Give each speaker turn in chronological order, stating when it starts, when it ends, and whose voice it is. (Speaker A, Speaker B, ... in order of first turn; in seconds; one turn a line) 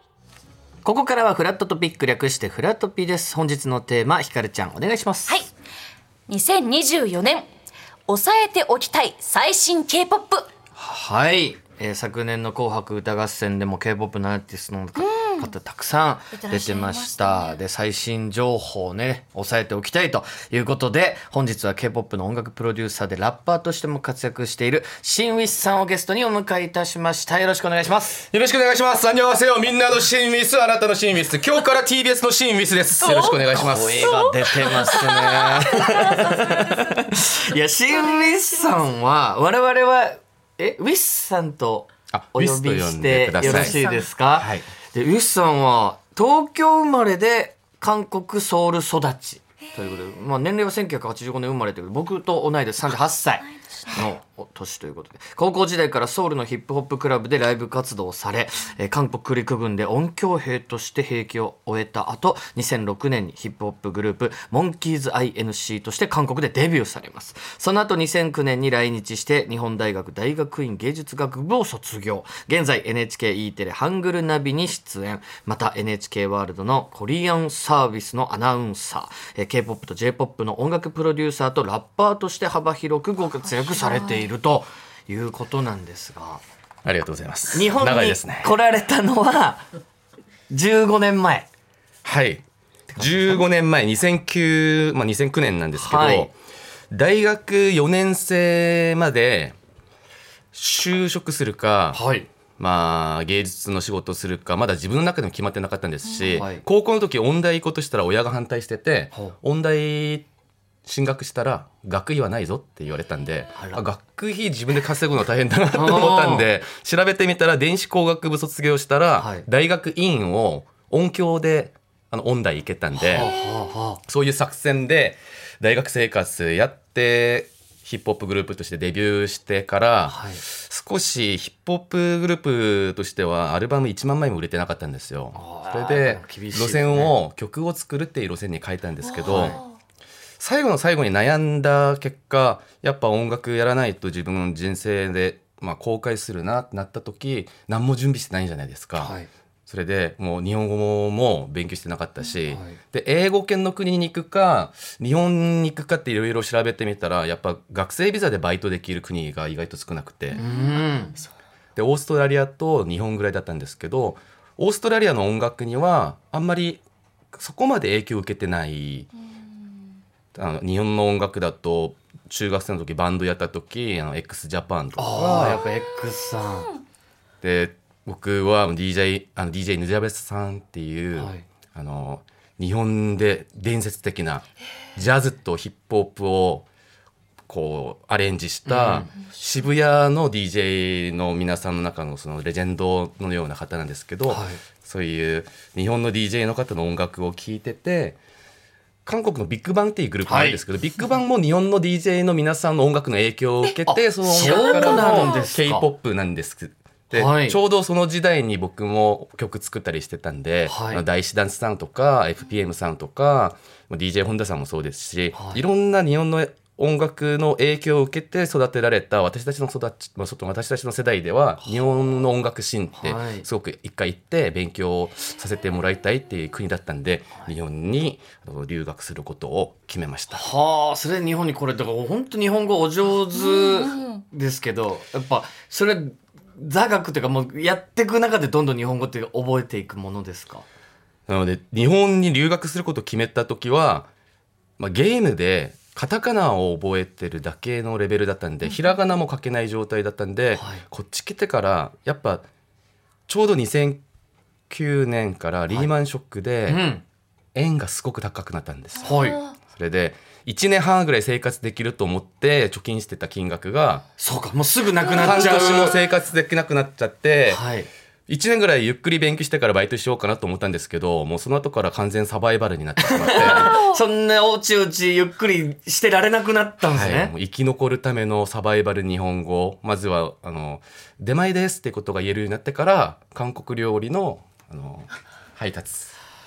Speaker A: 0.8-5.4
Speaker B: 6.3-7.5
Speaker B: 8.1-10.5
Speaker A: 10.8-28.2
Speaker B: 14.9-15.5
Speaker B: 16.3-17.6
Speaker C: 28.3-34.2
Speaker B: 33.0-37.3
Speaker A: 33.5-86.4
Speaker B: 37.9-38.9
Speaker C: 42.1-43.7
Speaker B: 43.4-44.1
Speaker C: 44.4-44.6
Speaker B: 83.5-84.2
Speaker C: 86.8-88.5
Speaker A: 87.5-89.7
Speaker A: 90.5-91.5
Speaker C: 92.0-92.4
Speaker C: 92.9-96.3
Speaker A: 95.8-96.3
Speaker C: 96.9-99.5
Speaker C: 100.5-102.0
Speaker A: 101.9-102.3
Speaker C: 102.6-110.3
Speaker A: 106.3-106.6
Speaker C: 110.8-123.3
Speaker A: 113.5-113.8
Speaker A: 115.7-116.5
Speaker A: 119.2-119.5
Speaker A: 122.9-124.0
Speaker C: 124.0-139.6
Speaker A: 130.1-130.4
Speaker A: 135.3-137.1
Speaker B: 139.2-139.6
Speaker A: 139.2-139.6
Speaker C: 140.4-149.1
Speaker A: 149.0-149.3
Speaker C: 149.7-160.4
Speaker A: 152.5-152.8
Speaker B: 160.3-161.3
Speaker A: 160.3-161.2
Speaker C: 161.8-169.1
Speaker C: 170.3-175.6
Speaker A: 175.0-176.7
Speaker C: 177.4-186.7
Speaker A: 181.2-181.4
Speaker C: 187.5-198.2
Speaker A: 188.7-189.1
Speaker A: 194.3-194.6
Speaker C: 199.1-230.5
Speaker A: 200.2-200.6
Speaker A: 203.8-205.9
Speaker B: 204.4-205.4
Speaker A: 207.1-207.6
Speaker A: 210.7-211.0
Speaker A: 215.3-215.6
Speaker A: 223.0-223.4
Speaker A: 230.3-240.7
Speaker B: 233.3-234.2
Speaker C: 241.3-244.1
Speaker C: 244.8-252.4
Speaker A: 250.6-250.8
Speaker C: 253.3-254.0
Speaker C: 254.7-256.8
Speaker A: 256.7-257.0
Speaker C: 257.5-264.0
Speaker B: 259.0-259.5
Speaker A: 259.0-259.4
Speaker A: 264.2-265.9
Speaker B: 265.1-266.0
Speaker C: 265.2-267.6
Speaker A: 267.5-267.9
Speaker C: 268.3-273.7
Speaker A: 273.0-277.3
Speaker B: 273.4-274.0
Speaker C: 276.9-286.1